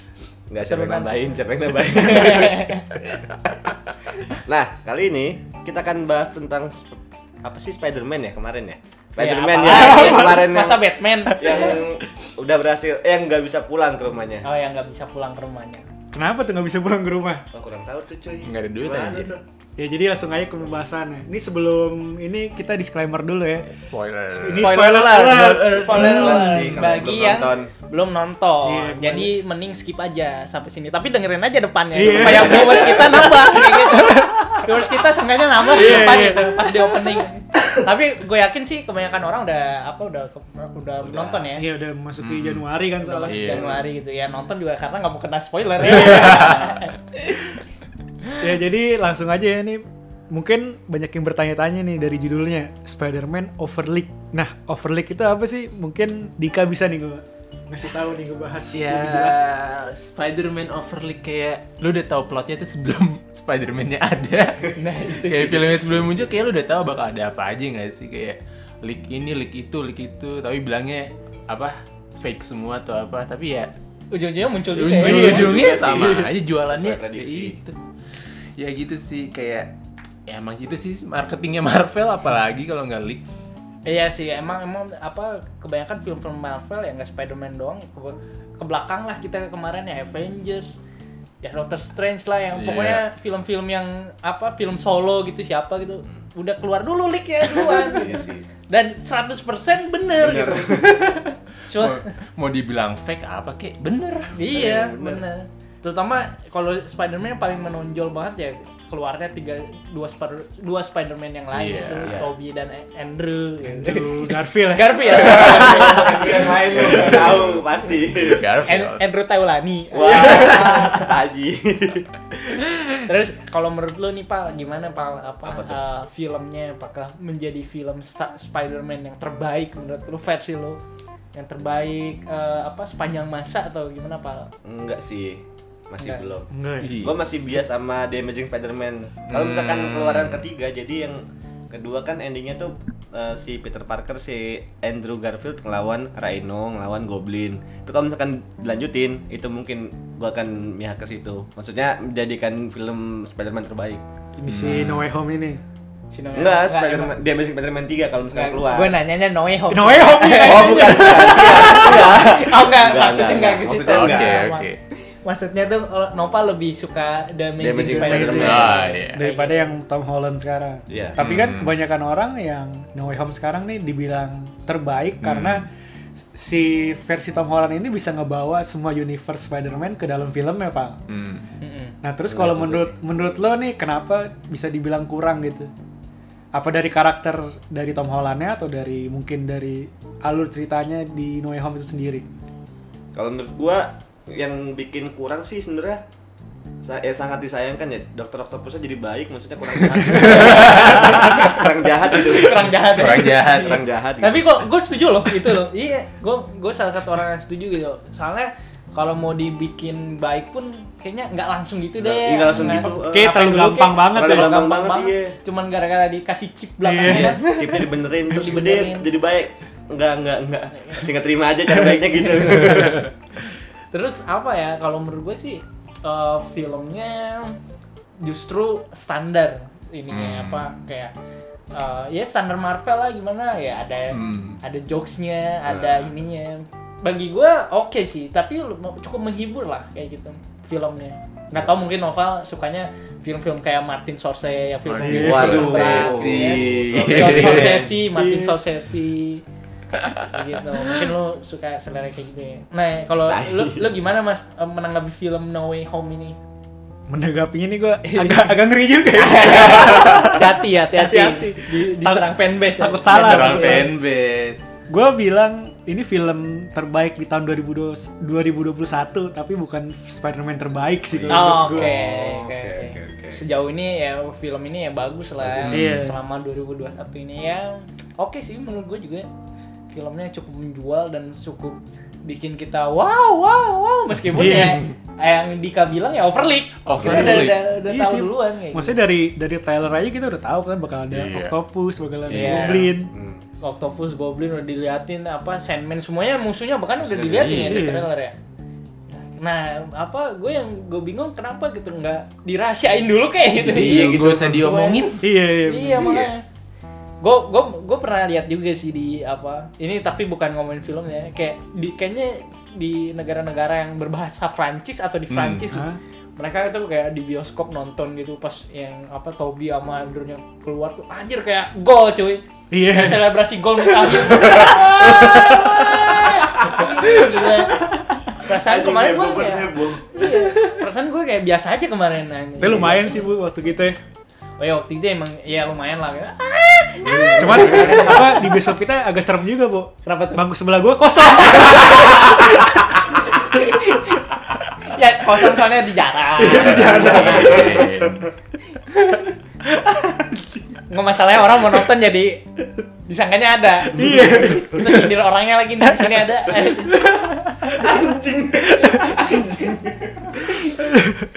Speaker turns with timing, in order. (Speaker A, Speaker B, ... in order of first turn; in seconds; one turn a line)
Speaker A: 0.5-3.0
Speaker B: 0.7-1.4
Speaker B: 1.9-2.9
Speaker A: 4.3-14.4
Speaker B: 9.2-11.8
Speaker C: 9.8-10.2
Speaker B: 14.4-15.8
Speaker C: 16.1-17.4
Speaker A: 17.5-19.4
Speaker D: 18.4-19.3
Speaker C: 19.8-23.7
Speaker D: 23.7-24.8
Speaker C: 24.3-26.5
Speaker B: 24.5-41.7
Speaker A: 25.7-27.7
Speaker C: 28.6-29.4
Speaker C: 31.9-34.6
Speaker C: 35.6-37.2
Speaker A: 41.0-41.5
Speaker C: 41.5-43.4
Speaker D: 42.2-42.6
Speaker B: 43.0-47.6
Speaker D: 43.2-43.7
Speaker A: 43.5-43.8
Speaker C: 45.9-46.6
Speaker D: 46.0-46.6
Speaker C: 48.4-59.4
Speaker D: 58.7-73.7
Speaker B: 64.8-65.7
Speaker B: 74.1-75.7
Speaker D: 74.7-77.8
Speaker C: 75.0-75.8
Speaker A: 75.0-77.6
Speaker D: 78.6-79.7
Speaker D: 80.2-83.2
Speaker B: 83.8-90.8
Speaker B: 91.4-102.0
Speaker D: 92.5-93.0
Speaker A: 97.6-98.4
Speaker A: 100.2-101.2
Speaker D: 101.7-104.3
Speaker B: 104.3-117.0
Speaker A: 104.4-105.2
Speaker D: 111.5-112.2
Speaker A: 112.0-112.3
Speaker C: 113.6-117.4
Speaker A: 115.0-118.7
Speaker D: 116.7-119.0
Speaker B: 118.6-121.0
Speaker A: 119.9-122.1
Speaker C: 120.1-121.1
Speaker B: 123.0-130.8
Speaker A: 125.4-125.8
Speaker B: 131.3-134.5
Speaker A: 134.6-154.0
Speaker B: 136.0-136.3
Speaker C: 136.5-136.9
Speaker D: 136.8-137.2
Speaker D: 139.3-140.4
Speaker C: 154.4-155.6
Speaker D: 154.4-155.1
Speaker B: 156.1-157.1
Speaker A: 156.3-158.9
Speaker B: 158.3-169.7
Speaker C: 159.7-161.8
Speaker A: 160.2-164.4
Speaker D: 163.8-164.8
Speaker A: 167.6-168.9
Speaker C: 167.8-175.7
Speaker D: 168.3-169.2
Speaker A: 170.9-171.2
Speaker D: 171.2-171.8
Speaker D: 175.2-175.7
Speaker C: 176.3-181.0
Speaker D: 181.1-181.5
Speaker B: 181.6-181.9
Speaker C: 182.0-185.7
Speaker A: 182.3-182.9
Speaker C: 186.5-192.2
Speaker A: 193.1-196.0
Speaker A: 196.8-202.8
Speaker D: 199.8-201.4
Speaker B: 200.2-219.1
Speaker D: 202.8-203.8
Speaker A: 203.5-204.5
Speaker A: 212.0-213.3
Speaker C: 213.0-214.6
Speaker A: 214.0-215.4
Speaker C: 216.8-217.6
Speaker A: 217.0-223.1
Speaker B: 220.7-221.0
Speaker B: 223.9-227.6
Speaker B: 228.2-231.1
Speaker D: 230.1-230.7
Speaker B: 231.7-249.4
Speaker D: 234.1-234.6
Speaker A: 235.7-236.1
Speaker D: 244.8-247.9
Speaker C: 245.0-245.8
Speaker A: 245.1-247.8
Speaker C: 247.4-248.6
Speaker B: 250.2-256.4
Speaker A: 253.2-253.9
Speaker C: 257.1-263.9
Speaker B: 258.0-258.6
Speaker B: 259.1-263.9
Speaker D: 263.1-264.8
Speaker C: 264.9-271.9
Speaker D: 271.1-271.6
Speaker B: 271.3-279.3
Speaker A: 271.6-273.4
Speaker A: 275.5-275.8
Speaker D: 275.6-276.0
Speaker C: 275.7-276.1
Speaker B: 279.9-289.0
Speaker C: 284.3-284.8
Speaker D: 286.8-287.6
Speaker C: 287.0-293.1
Speaker D: 291.1-291.6
Speaker D: 292.3-292.9
Speaker B: 292.3-292.9
Speaker A: 293.1-293.4
Speaker B: 293.6-298.4
Speaker D: 297.1-297.9
Speaker C: 297.6-298.1
Speaker B: 299.1-306.4
Speaker D: 303.6-305.3
Speaker A: 303.7-304.6
Speaker C: 305.2-306.3
Speaker D: 305.9-306.3
Speaker B: 307.2-333.3
Speaker D: 315.3-315.7
Speaker C: 315.7-316.0
Speaker C: 322.7-324.6
Speaker C: 325.4-326.1
Speaker A: 326.8-327.2
Speaker A: 328.3-330.1
Speaker C: 332.6-334.0
Speaker A: 332.6-332.9
Speaker B: 334.6-338.5
Speaker A: 337.0-338.2
Speaker C: 337.4-342.6
Speaker B: 340.0-340.4
Speaker B: 341.3-347.8
Speaker C: 346.4-347.7
Speaker A: 346.5-348.1
Speaker D: 346.5-348.2
Speaker B: 349.0-349.3
Speaker B: 350.9-352.4
Speaker B: 353.1-357.9
Speaker C: 353.9-354.9
Speaker A: 354.0-354.6
Speaker A: 357.6-360.6
Speaker B: 358.7-359.7
Speaker C: 360.9-361.2